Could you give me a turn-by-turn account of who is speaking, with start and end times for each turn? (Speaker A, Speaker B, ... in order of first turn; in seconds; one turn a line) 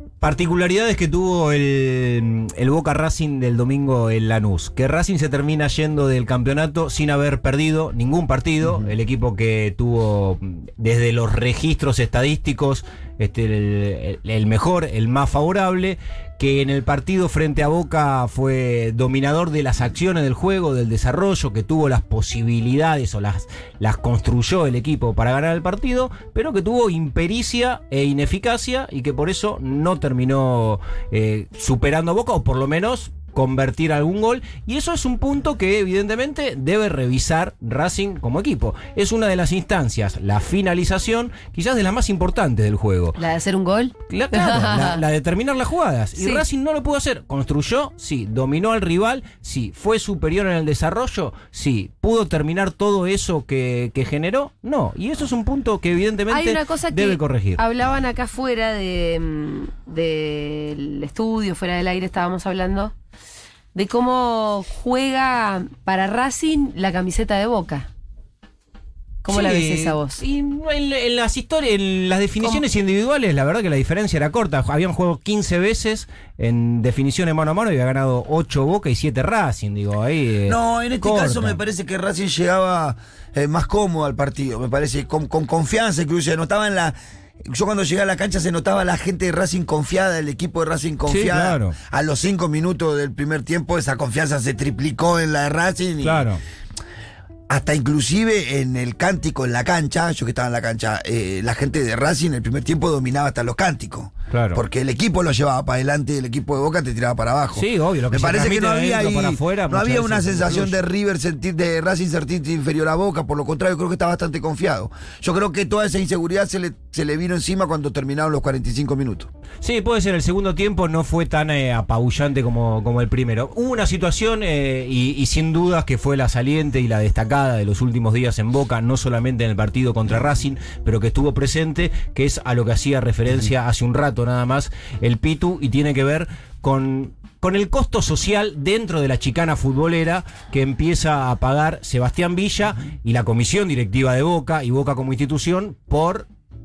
Speaker A: 0.2-43.2
Speaker B: 8.6-8.9
Speaker C: 43.2-45.0
Speaker A: 44.1-57.6
Speaker C: 56.3-62.9
Speaker C: 63.7-67.9
Speaker C: 69.2-70.2
Speaker A: 69.3-81.6
Speaker B: 80.5-96.3
Speaker A: 91.1-91.8
Speaker A: 96.0-96.4
Speaker B: 97.5-119.3
Speaker A: 104.3-104.6
Speaker A: 107.5-110.8
Speaker A: 119.6-146.3